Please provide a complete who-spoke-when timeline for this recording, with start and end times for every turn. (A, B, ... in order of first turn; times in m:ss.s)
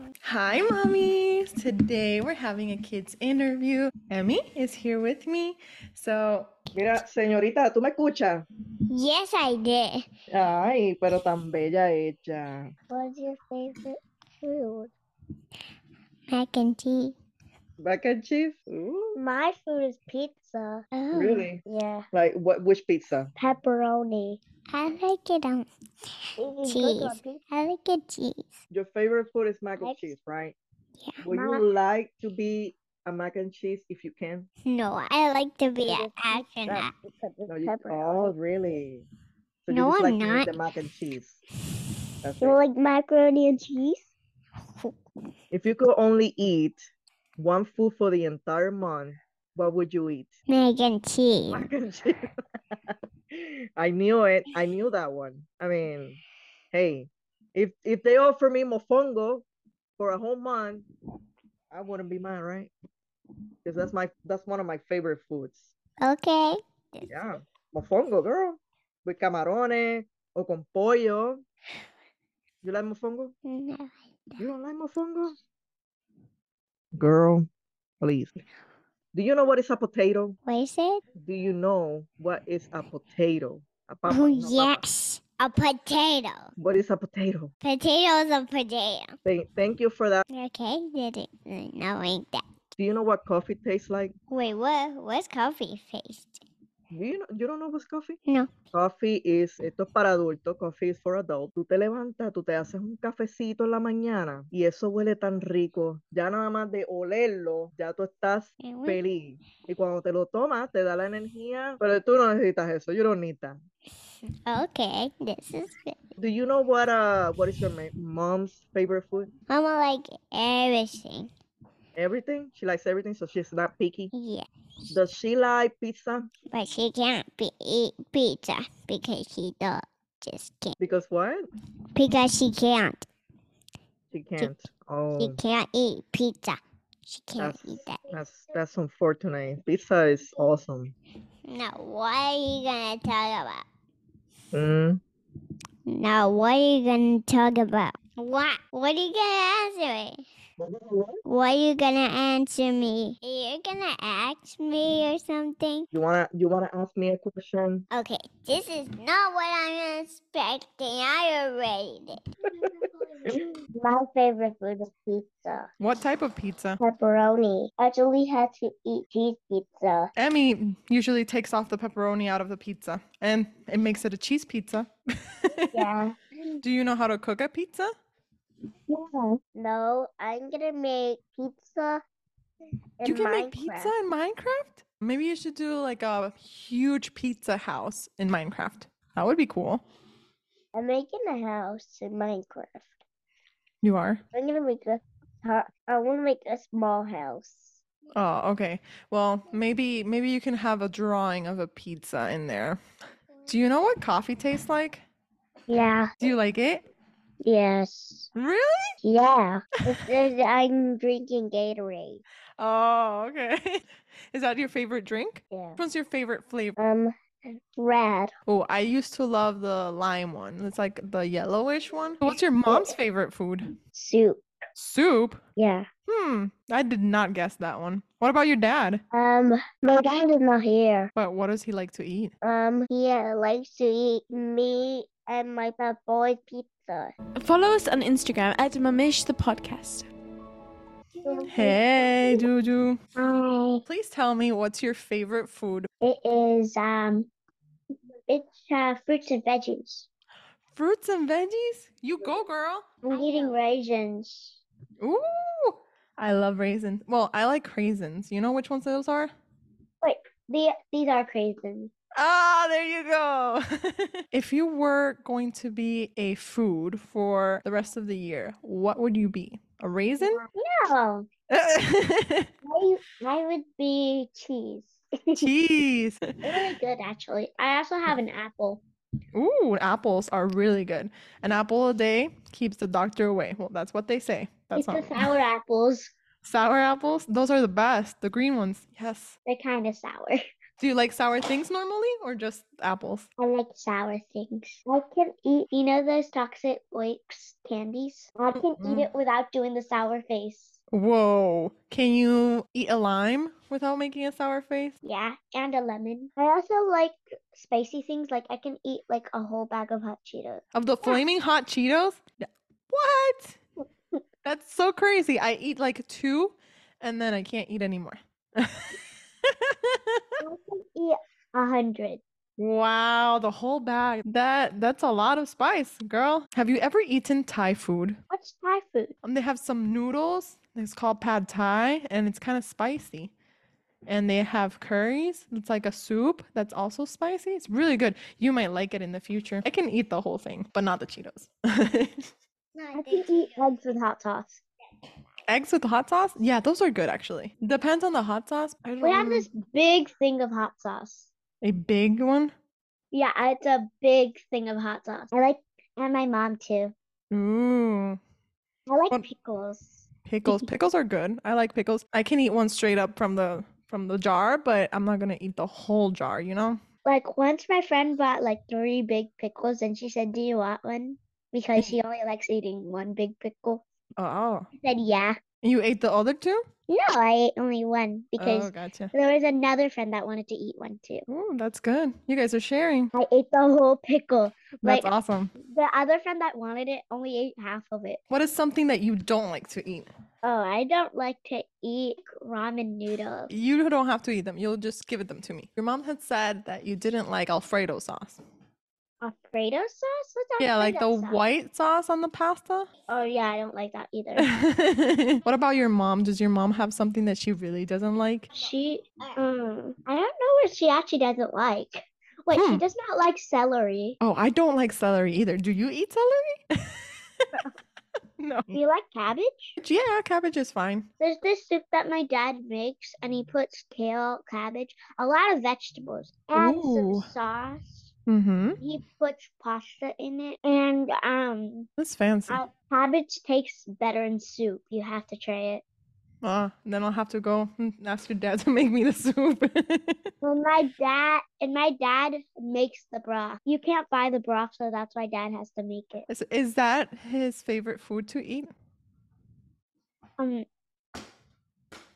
0:00.2-0:06.5 A
0:06.8-0:08.5 B
0:08.9-0:10.1 C
0:10.3-0:12.7 B
0:12.9-0:14.9 D
0:16.3-0:17.2 C
0:17.8-0:19.2 B
0:19.2-0:20.8 D
0:20.9-0:21.4 C
0:21.1-0:23.3 B
0:21.6-0:22.1 D
0:23.4-0:24.4 D
0:24.7-0:25.7 C
0:26.4-0:27.4 D
0:26.6-0:28.6 C
0:28.7-0:30.6 B
0:29.8-0:30.1 D
0:31.2-0:34.5 B
0:31.3-0:31.6 D
0:34.6-0:36.9 C
0:35.8-0:38.4 D
0:37.5-0:39.1 B
0:39.7-0:41.4 B
0:39.7-0:40.5 C
0:42.2-0:42.6 B
0:42.4-0:44.1 D
0:45.5-0:50.4 B
0:50.5-0:51.7 C
0:51.5-0:52.3 B
0:52.9-0:56.2 B
0:56.7-0:59.5 B
1:00.0-1:00.9 B
1:01.7-1:02.7 B
1:03.6-1:05.7 B
1:06.0-1:07.1 C
1:07.1-1:11.4 B
1:12.6-1:13.4 B
1:13.5-1:14.4 C
1:14.4-1:15.4 B
1:17.0-1:17.5 B
1:18.0-1:18.4 B
1:19.1-1:20.4 B
1:20.5-1:21.0 C
1:21.2-1:24.8 B
1:24.1-1:26.5 C
1:26.6-1:27.5 B
1:27.6-1:29.2 C
1:29.2-1:30.2 B
1:30.3-1:32.4 C
1:32.8-1:34.2 B
1:34.3-1:36.4 C
1:36.9-1:38.2 B
1:38.7-1:53.6 B
1:48.6-1:49.0 C
1:54.4-1:56.2 C
1:56.2-1:59.3 B
1:59.5-2:01.3 C
2:02.0-2:04.1 B
2:04.1-2:04.5 C
2:04.9-2:06.3 B
2:06.5-2:10.8 C
2:10.8-2:11.5 B
2:12.0-2:13.1 C
2:14.1-2:15.4 B
2:15.2-2:18.0 C
2:17.4-2:21.0 B
2:21.5-2:23.6 C
2:24.5-2:25.0 B
2:25.9-2:30.2 C
2:30.7-2:31.1 B
2:31.3-2:35.9 C
2:35.9-2:37.9 B
2:37.9-2:42.2 C
2:43.7-2:45.7 D
2:45.8-2:46.8 A
2:46.8-2:50.1 D
2:50.2-2:55.9 A
2:55.7-2:56.6 D
2:56.6-2:58.0 A
2:58.9-3:02.0 D
3:03.0-3:04.0 D
3:03.0-3:09.8 A
3:10.8-3:12.9 D
3:13.8-3:14.2 A
3:14.3-3:17.8 D
3:18.2-3:22.8 A
3:23.5-3:25.0 A
3:25.7-3:26.1 D
3:26.2-3:26.8 A
3:27.4-3:28.3 D
3:28.4-3:29.0 A
3:29.0-3:32.2 D
3:29.8-3:30.2 A
3:32.6-3:36.8 A
3:35.5-3:35.8 D
3:36.8-3:38.3 D
3:38.5-3:43.7 A
3:42.3-3:43.0 D
3:43.9-3:44.4 D
3:44.8-3:45.4 A
3:45.6-3:45.9 D
3:46.1-3:49.0 A
3:49.1-3:51.1 D
3:51.2-3:52.3 A
3:52.4-3:57.1 D
3:57.4-4:00.1 E
4:01.2-4:02.4 D
4:01.5-4:03.0 A
4:03.2-4:03.8 D
4:03.9-4:05.9 A
4:06.0-4:07.3 D
4:08.3-4:10.1 D
4:10.7-4:12.9 A
4:13.0-4:14.6 D
4:13.1-4:13.5 C
4:15.0-4:19.3 A
4:20.0-4:21.9 D
4:22.2-4:30.4 A
4:30.2-4:31.3 D
4:31.5-4:32.5 A
4:32.6-4:35.5 D
4:35.4-4:36.2 A
4:36.4-4:38.8 D
4:39.3-4:45.3 A
4:44.8-4:46.1 D
4:46.4-4:49.4 A
4:49.5-4:50.4 D
4:50.8-4:53.3 A
4:53.4-5:00.8 D
4:58.5-4:59.1 A
5:00.9-5:05.0 A
5:05.0-5:11.2 D
5:10.7-5:13.6 A
5:14.4-5:20.2 A
5:20.4-5:22.2 D
5:22.6-5:28.2 A
5:28.3-5:29.1 D
5:29.2-5:33.3 A
5:34.1-5:42.3 A
5:42.8-5:43.5 C
5:42.9-5:44.6 D
5:45.5-5:49.5 A
5:49.0-5:51.3 D
5:51.6-5:52.5 A
5:53.1-5:56.9 D
5:57.3-5:58.2 A
5:58.9-6:00.7 D
6:00.3-6:06.8 A
6:07.0-6:13.8 D
6:14.2-6:14.7 A
6:14.8-6:15.4 D
6:15.6-6:16.7 A
6:16.9-6:21.3 D
6:18.4-6:19.1 A
6:21.3-6:23.1 A
6:23.1-6:28.2 D
6:24.8-6:25.5 A
6:28.3-6:30.1 A
6:30.4-6:33.5 D
6:33.5-6:38.4 A
6:39.2-6:41.4 D
6:40.6-6:42.9 A
6:43.1-6:44.5 D
6:44.4-6:48.5 A
6:48.5-6:54.2 D
6:52.5-6:52.8 A
6:54.2-6:57.6 A
6:58.4-6:58.8 A
6:58.7-6:59.8 D
6:59.8-7:01.1 A
7:01.2-7:08.1 D
7:06.6-7:07.3 A
7:08.3-7:08.8 A
7:08.8-7:11.9 D
7:12.0-7:12.6 A
7:12.5-7:15.8 D
7:16.4-7:20.3 A
7:20.4-7:26.3 D
7:26.3-7:28.7 A
7:30.4-7:30.7 D